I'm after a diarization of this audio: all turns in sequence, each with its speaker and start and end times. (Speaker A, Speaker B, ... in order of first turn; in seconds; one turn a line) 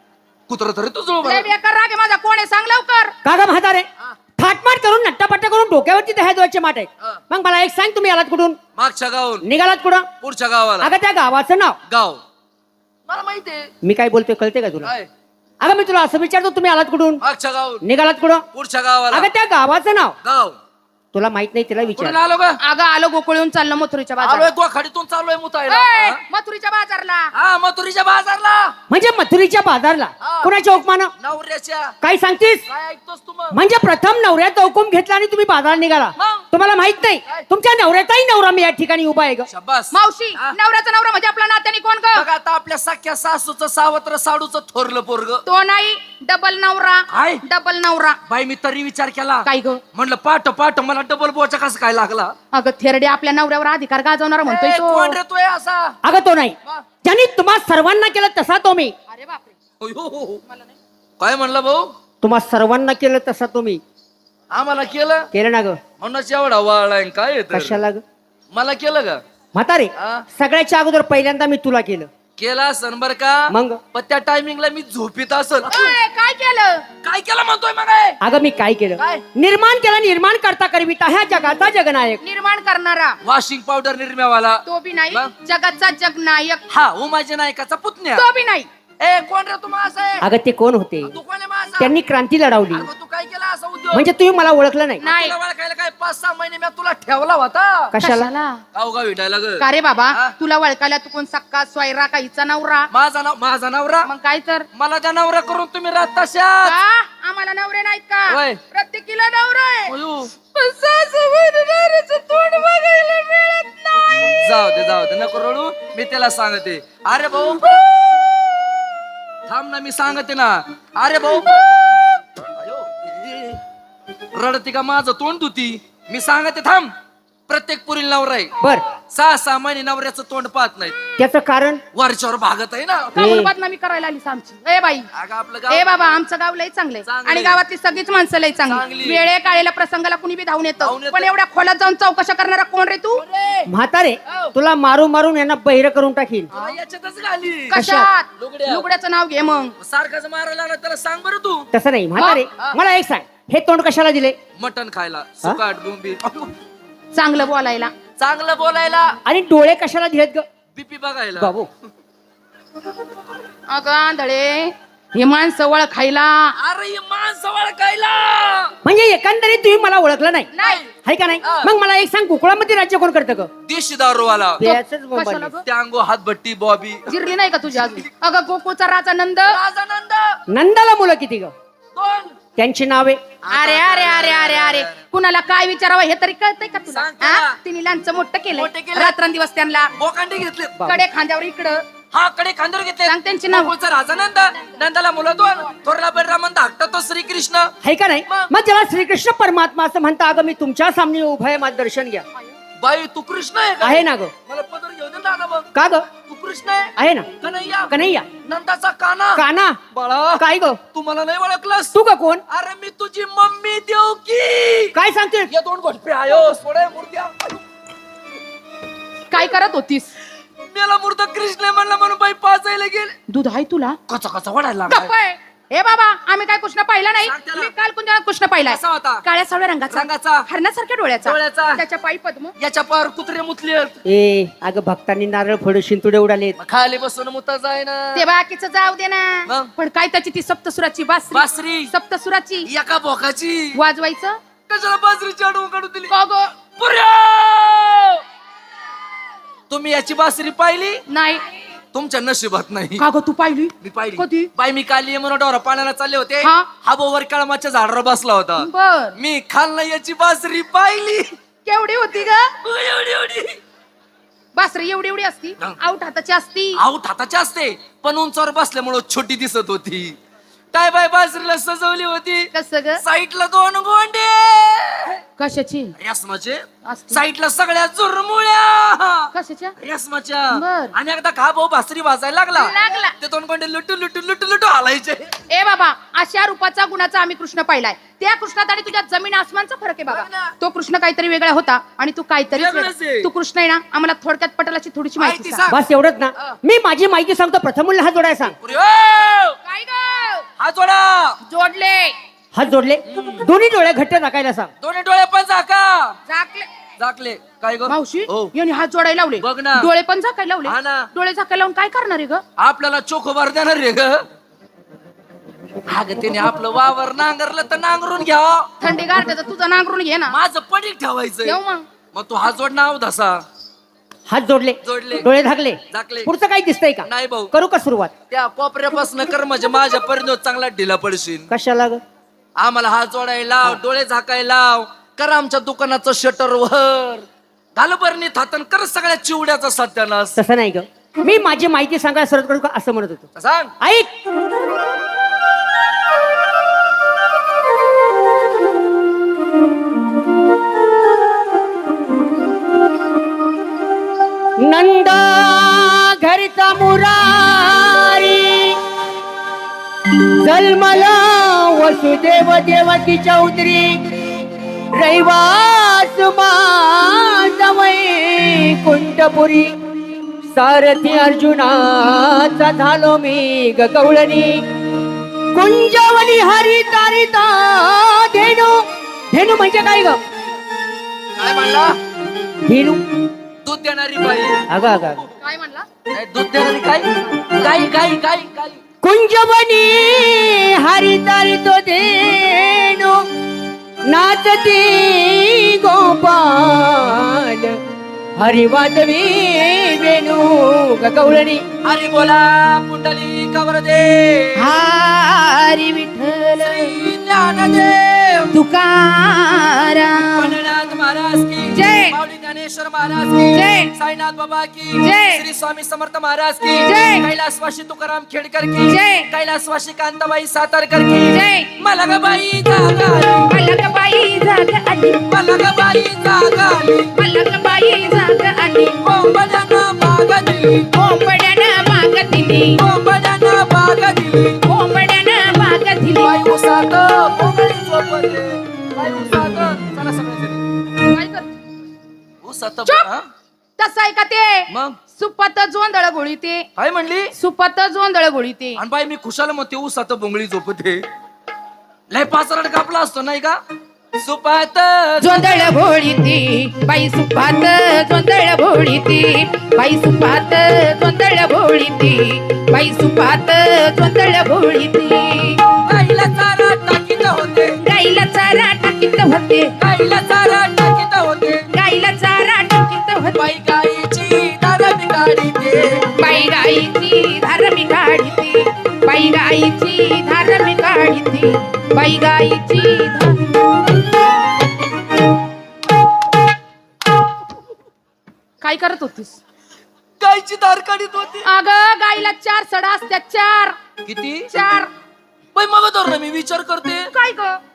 Speaker A: 0.5-1.5
Speaker B: 1.2-3.1
Speaker C: 3.2-3.9
Speaker C: 4.4-8.6
Speaker A: 8.8-9.5
Speaker C: 9.4-10.1
Speaker A: 10.2-10.9
Speaker C: 10.8-11.8
Speaker A: 11.9-12.2
Speaker A: 13.1-13.7
Speaker C: 13.8-14.9
Speaker A: 14.8-15.1
Speaker C: 15.6-17.2
Speaker A: 17.2-17.8
Speaker C: 17.8-18.5
Speaker A: 18.5-19.3
Speaker C: 19.1-20.2
Speaker A: 20.2-20.6
Speaker C: 21.1-22.2
Speaker A: 22.0-22.6
Speaker B: 22.6-24.5
Speaker A: 24.2-26.2
Speaker B: 25.7-27.3
Speaker A: 27.3-28.8
Speaker C: 28.9-31.1
Speaker A: 30.2-30.5
Speaker A: 31.2-31.9
Speaker C: 32.0-32.6
Speaker A: 32.7-33.6
Speaker C: 33.5-39.5
Speaker A: 36.2-36.5
Speaker A: 39.5-40.6
Speaker B: 39.9-42.3
Speaker A: 42.1-45.4
Speaker B: 45.5-48.2
Speaker A: 47.1-47.4
Speaker A: 48.3-52.3
Speaker B: 49.5-49.8
Speaker B: 52.5-55.2
Speaker A: 54.5-56.0
Speaker C: 56.0-59.0
Speaker B: 59.1-59.6
Speaker A: 59.8-60.4
Speaker B: 60.5-60.8
Speaker A: 61.2-61.9
Speaker C: 62.2-63.8
Speaker A: 64.5-65.3
Speaker C: 65.3-65.8
Speaker A: 66.0-67.8
Speaker C: 67.5-68.0
Speaker A: 68.5-69.2
Speaker C: 69.5-72.1
Speaker A: 70.0-70.2
Speaker A: 72.4-75.9
Speaker C: 73.5-73.8
Speaker B: 75.7-76.8
Speaker A: 77.0-78.2
Speaker C: 78.2-82.2
Speaker A: 79.0-79.2
Speaker B: 82.2-83.2
Speaker A: 83.2-85.3
Speaker B: 84.7-86.6
Speaker A: 86.7-88.2
Speaker B: 88.2-88.7
Speaker A: 89.0-90.3
Speaker C: 90.2-91.2
Speaker A: 91.1-92.0
Speaker C: 91.8-92.9
Speaker A: 92.7-94.1
Speaker C: 93.9-95.0
Speaker B: 95.0-95.4
Speaker A: 95.0-97.9
Speaker C: 97.9-98.3
Speaker B: 98.0-98.6
Speaker A: 98.7-100.3
Speaker B: 99.6-102.9
Speaker A: 102.9-104.1
Speaker B: 104.1-104.7
Speaker A: 104.7-106.8
Speaker B: 106.6-109.9
Speaker A: 108.3-108.6
Speaker A: 109.9-110.3
Speaker B: 110.5-114.4
Speaker A: 114.2-117.9
Speaker A: 119.5-123.6
Speaker A: 124.3-126.9
Speaker A: 127.5-128.5
Speaker C: 128.6-128.9
Speaker A: 129.1-131.0
Speaker C: 131.2-131.8
Speaker A: 131.9-133.3
Speaker B: 133.2-135.1
Speaker C: 133.2-133.5
Speaker A: 135.1-135.8
Speaker B: 135.7-143.2
Speaker A: 137.1-137.6
Speaker A: 138.7-139.2
Speaker A: 140.8-141.3
Speaker A: 143.2-143.7
Speaker C: 143.7-146.5
Speaker A: 146.5-147.8
Speaker C: 147.7-148.1
Speaker B: 147.8-149.7
Speaker A: 148.4-148.8
Speaker A: 149.8-151.7
Speaker C: 151.7-154.4
Speaker A: 154.6-156.5
Speaker B: 157.1-157.9
Speaker A: 158.2-159.2
Speaker C: 159.3-160.5
Speaker A: 160.8-161.6
Speaker C: 161.4-161.7
Speaker B: 163.7-166.5
Speaker A: 166.6-168.7
Speaker C: 168.8-170.5
Speaker B: 170.6-170.8
Speaker A: 170.6-171.7
Speaker C: 171.1-173.5
Speaker A: 173.7-174.6
Speaker C: 174.6-175.6
Speaker B: 174.6-175.6
Speaker A: 175.7-178.1
Speaker B: 177.1-179.6
Speaker A: 179.5-180.4
Speaker C: 180.5-181.5
Speaker A: 181.9-182.3
Speaker C: 182.6-183.2
Speaker A: 183.4-185.0
Speaker B: 183.5-189.9
Speaker A: 186.9-187.6
Speaker A: 188.5-189.2
Speaker A: 190.0-190.9
Speaker B: 190.9-191.8
Speaker A: 192.1-197.7
Speaker B: 193.1-193.7
Speaker C: 197.8-202.3
Speaker A: 202.8-207.9
Speaker C: 203.8-204.3
Speaker C: 205.7-206.1
Speaker C: 207.0-207.3
Speaker C: 207.9-208.3
Speaker A: 208.4-212.0
Speaker C: 209.3-209.8
Speaker C: 210.4-210.8
Speaker C: 211.9-212.4
Speaker A: 212.5-214.9
Speaker C: 214.9-215.5
Speaker A: 215.5-217.6
Speaker B: 219.3-220.1
Speaker A: 220.7-223.2
Speaker B: 223.3-224.0
Speaker A: 224.1-225.1
Speaker B: 224.9-232.5
Speaker A: 227.2-227.7
Speaker A: 228.7-229.2
Speaker A: 229.9-230.5
Speaker A: 231.3-231.8
Speaker A: 232.6-234.0
Speaker C: 234.1-236.6
Speaker A: 236.6-238.3
Speaker B: 238.2-242.7
Speaker A: 241.3-241.9
Speaker A: 242.7-243.8
Speaker B: 243.7-244.4
Speaker A: 244.7-246.1
Speaker B: 246.1-246.6
Speaker A: 246.8-248.2
Speaker A: 249.7-251.0
Speaker B: 251.1-251.4
Speaker A: 251.9-253.0
Speaker B: 253.0-254.5
Speaker A: 253.8-261.3
Speaker B: 256.4-256.7
Speaker B: 258.6-259.2
Speaker B: 261.7-262.5
Speaker A: 262.6-263.6
Speaker B: 264.6-266.8
Speaker A: 266.8-270.2
Speaker A: 270.7-275.2
Speaker B: 272.5-273.0
Speaker B: 275.4-275.9
Speaker A: 276.0-285.3
Speaker B: 276.9-277.2
Speaker B: 279.3-279.7
Speaker B: 280.5-280.9
Speaker B: 282.6-283.1
Speaker B: 285.5-295.7
Speaker A: 290.1-290.5
Speaker A: 292.6-293.3
Speaker A: 295.2-295.8
Speaker C: 295.7-298.6
Speaker A: 298.6-299.6
Speaker B: 299.6-300.4
Speaker A: 300.6-301.4
Speaker B: 301.5-302.1
Speaker C: 302.5-304.7
Speaker A: 303.1-303.4
Speaker A: 304.8-306.2
Speaker B: 306.3-306.7
Speaker A: 307.0-308.5
Speaker B: 307.9-312.4
Speaker A: 309.4-309.9
Speaker A: 310.7-311.1
Speaker A: 312.6-314.3
Speaker A: 315.9-318.7
Speaker B: 318.8-320.4
Speaker A: 320.3-321.6
Speaker B: 321.4-321.9
Speaker A: 322.1-323.4
Speaker C: 324.3-328.1
Speaker A: 324.8-325.3
Speaker A: 325.9-326.3
Speaker A: 327.1-327.5
Speaker A: 328.3-331.5
Speaker C: 331.5-332.0
Speaker A: 332.6-340.4
Speaker C: 340.4-343.3
Speaker A: 343.4-343.7
Speaker C: 343.8-344.1
Speaker C: 354.6-358.8
Speaker C: 360.4-364.1
Speaker C: 365.0-369.7
Speaker C: 370.5-374.6
Speaker C: 375.6-378.8
Speaker C: 379.3-380.2
Speaker A: 381.4-382.0
Speaker C: 382.7-383.1
Speaker A: 383.6-385.3
Speaker C: 384.7-385.2
Speaker B: 385.4-385.9
Speaker A: 386.1-388.8
Speaker C: 389.0-393.1
Speaker C: 394.1-397.8
Speaker C: 398.4-401.6
Speaker A: 401.8-404.7
Speaker B: 404.6-407.0
Speaker A: 406.6-408.5
Speaker B: 408.5-410.5
Speaker A: 410.4-423.5
Speaker B: 411.7-412.1
Speaker B: 413.5-413.9
Speaker B: 415.0-415.4
Speaker B: 416.9-417.2
Speaker B: 418.9-419.3
Speaker B: 421.3-421.7
Speaker B: 423.5-425.2
Speaker A: 425.3-427.1
Speaker B: 427.2-429.0
Speaker A: 429.0-430.9
Speaker B: 430.9-432.8
Speaker A: 432.8-434.6
Speaker B: 434.7-436.4
Speaker A: 436.2-440.6
Speaker B: 441.0-441.6
Speaker A: 442.4-443.3
Speaker B: 443.8-446.7
Speaker A: 444.7-445.0
Speaker A: 446.8-447.3
Speaker B: 447.4-448.8
Speaker A: 448.8-451.0
Speaker A: 452.1-453.6
Speaker A: 454.2-455.6
Speaker B: 455.2-465.6
Speaker A: 465.9-467.8
Speaker B: 467.8-469.7
Speaker A: 469.8-471.6
Speaker B: 471.7-473.4
Speaker A: 473.4-476.0
Speaker B: 476.2-483.6
Speaker B: 488.6-489.4
Speaker A: 490.2-491.5
Speaker B: 491.4-493.8
Speaker A: 494.1-494.5
Speaker B: 494.5-494.9
Speaker A: 495.6-497.1
Speaker B: 497.1-497.6